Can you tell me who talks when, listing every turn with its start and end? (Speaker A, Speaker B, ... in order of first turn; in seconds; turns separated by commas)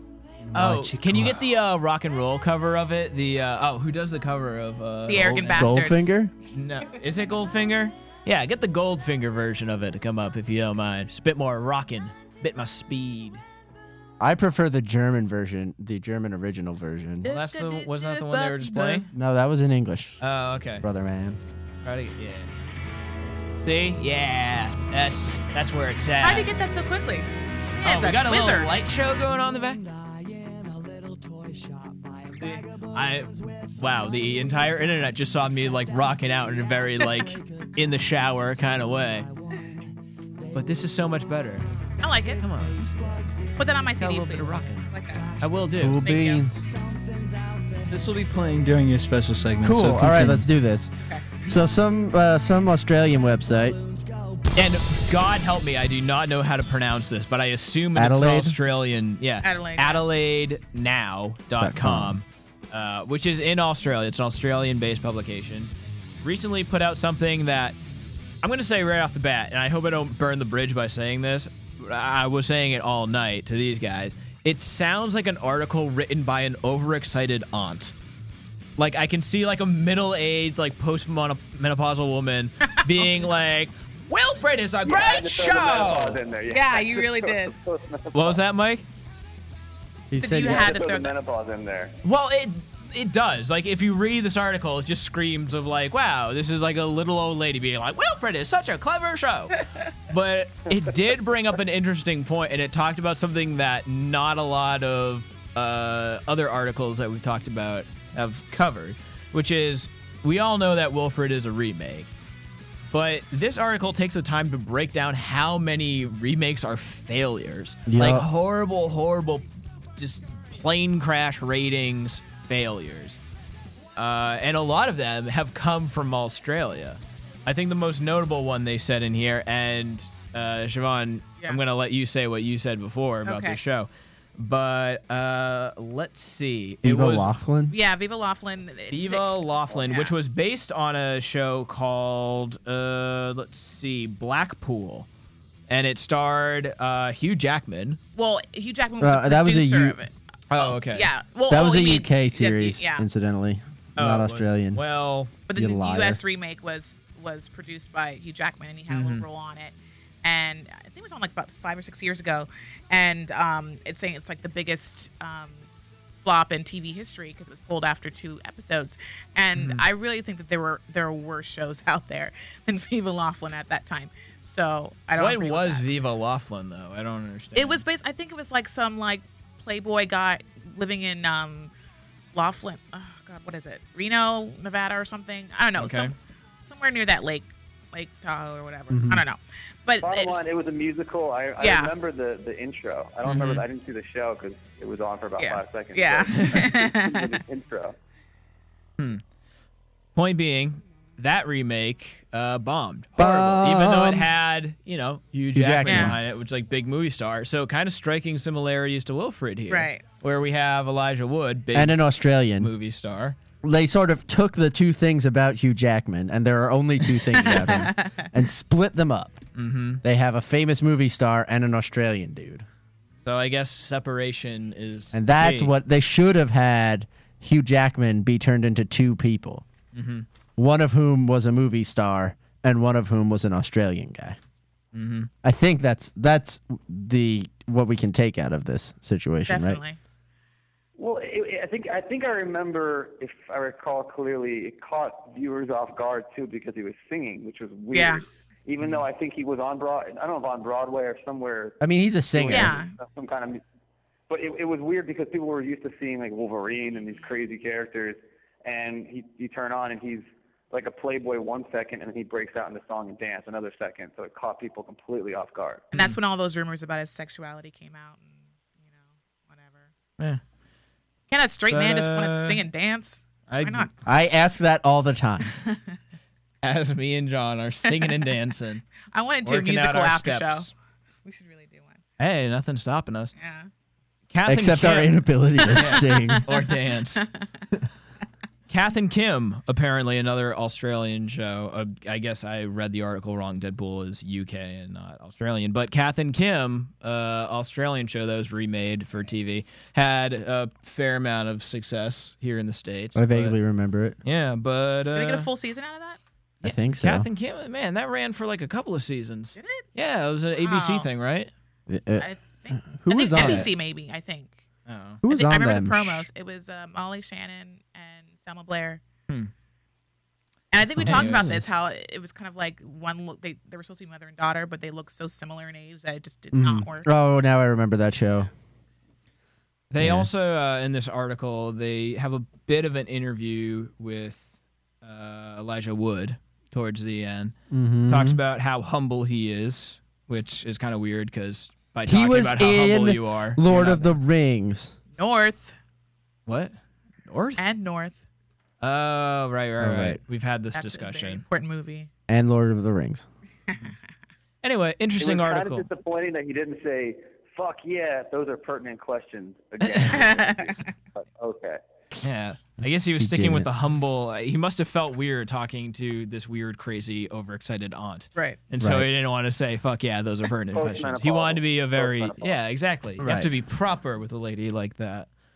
Speaker A: 0.5-5.8, Speaker B: 0.5-1.4, Speaker C: 5.1-6.1, Speaker D: 5.2-6.3, Speaker A: 6.5-13.4, Speaker D: 14.2-17.3, Speaker C: 17.2-19.1, Speaker A: 17.3-19.1, Speaker D: 19.1-20.2, Speaker A: 20.2-20.9, Speaker D: 20.8-21.4, Speaker A: 21.8-22.5, Speaker A: 23.6-26.5, Speaker C: 26.2-27.3, Speaker C: 27.8-28.7, Speaker A: 27.8-29.9, Speaker A: 32.3-39.3, Speaker A: 40.5-41.7, Speaker C: 42.0-42.4, Speaker A: 42.3-46.1, Speaker C: 43.6-46.5, Speaker D: 45.8-46.7, Speaker B: 47.9-50.5, Speaker D: 49.6-50.9, Speaker D: 51.5-53.8, Speaker A: 54.5-67.8, Speaker D: 58.0-58.6, Speaker C: 59.4-60.0, Speaker D: 61.6-62.2, Speaker A: 68.4-77.9, Speaker A: 78.8-86.2, Speaker E: 84.8-88.4, Speaker C: 86.5-87.5, Speaker A: 88.1-88.8, Speaker D: 90.1-90.8, Speaker C: 90.2-91.1, Speaker E: 90.4-92.0, Speaker A: 92.0-112.1, Speaker A: 112.9-119.5, Speaker D: 117.9-118.3, Speaker A: 120.0-123.2, Speaker A: 124.0-137.3, Speaker C: 133.2-133.6, Speaker D: 136.8-137.8, Speaker C: 137.7-140.1, Speaker A: 138.9-145.1, Speaker A: 145.7-148.0, Speaker C: 148.2-153.1, Speaker D: 149.0-150.0, Speaker A: 150.5-151.1, Speaker D: 151.5-154.8, Speaker A: 154.0-155.3, Speaker C: 155.5-165.7, Speaker D: 155.5-156.2, Speaker A: 158.9-159.2, Speaker C: 166.2-175.9, Speaker A: 169.6-169.8, Speaker A: 175.2-177.8, Speaker C: 177.6-181.7, Speaker C: 182.3-190.4, Speaker A: 185.8-186.1, Speaker D: 188.9-189.2, Speaker E: 190.0-197.9, Speaker C: 191.6-191.9, Speaker A: 193.2-193.7, Speaker C: 195.4-197.4, Speaker A: 196.3-196.7, Speaker A: 200.2-212.1, Speaker D: 203.2-204.3, Speaker D: 205.5-206.2, Speaker C: 205.9-206.1, Speaker C: 209.7-210.0, Speaker D: 211.7-212.7, Speaker A: 212.6-213.4, Speaker D: 213.6-219.4, Speaker C: 217.4-218.2, Speaker A: 219.6-220.0, Speaker D: 220.0-222.7, Speaker A: 223.2-225.7, Speaker D: 225.1-229.6, Speaker A: 229.9-230.3, Speaker D: 230.6-234.4, Speaker A: 234.9-235.3, Speaker D: 235.4-239.8, Speaker C: 239.5-240.0, Speaker E: 241.0-251.8, Speaker C: 247.9-248.2, Speaker D: 251.8-252.8, Speaker E: 252.3-253.6, Speaker C: 252.5-252.9, Speaker E: 254.3-265.9, Speaker C: 265.9-269.9, Speaker C: 271.3-273.9, Speaker A: 271.7-272.6, Speaker A: 273.5-273.9, Speaker D: 274.1-275.6, Speaker A: 276.6-278.9, Speaker C: 279.1-280.7, Speaker A: 279.4-280.7, Speaker C: 281.2-282.0, Speaker A: 282.2-283.3, Speaker C: 283.4-283.7, Speaker A: 284.3-287.3, Speaker D: 284.5-286.5, Speaker C: 285.6-286.4, Speaker A: 288.7-303.6, Speaker D: 303.1-304.2, Speaker A: 304.2-305.5, Speaker C: 305.1-306.2, Speaker D: 306.6-307.3, Speaker A: 306.6-311.5, Speaker C: 309.6-309.9, Speaker C: 310.6-311.1, Speaker D: 311.9-313.7, Speaker C: 312.2-314.6, Speaker A: 313.4-313.7, Speaker A: 314.9-315.2, Speaker D: 315.2-316.3, Speaker C: 315.3-319.0, Speaker C: 320.7-327.1, Speaker D: 320.9-321.6, Speaker A: 321.1-321.6, Speaker D: 326.5-328.5, Speaker A: 329.9-334.4, Speaker D: 330.0-330.3, Speaker A: 335.0-337.5, Speaker D: 337.7-338.4, Speaker A: 338.1-344.1, Speaker D: 342.1-344.9, Speaker C: 345.2-345.8, Speaker A: 346.5-346.8, Speaker A: 347.3-347.7, Speaker C: 347.6-348.2, Speaker A: 348.8-351.4, Speaker D: 349.8-350.2, Speaker C: 350.7-352.1, Speaker D: 352.3-353.3, Speaker A: 354.6-355.9, Speaker E: 355.2-361.8, Speaker A: 359.8-360.1, Speaker C: 360.1-360.9, Speaker A: 362.2-375.3, Speaker D: 363.2-363.7, Speaker D: 368.8-369.1, Speaker E: 370.7-372.6, Speaker D: 373.2-373.5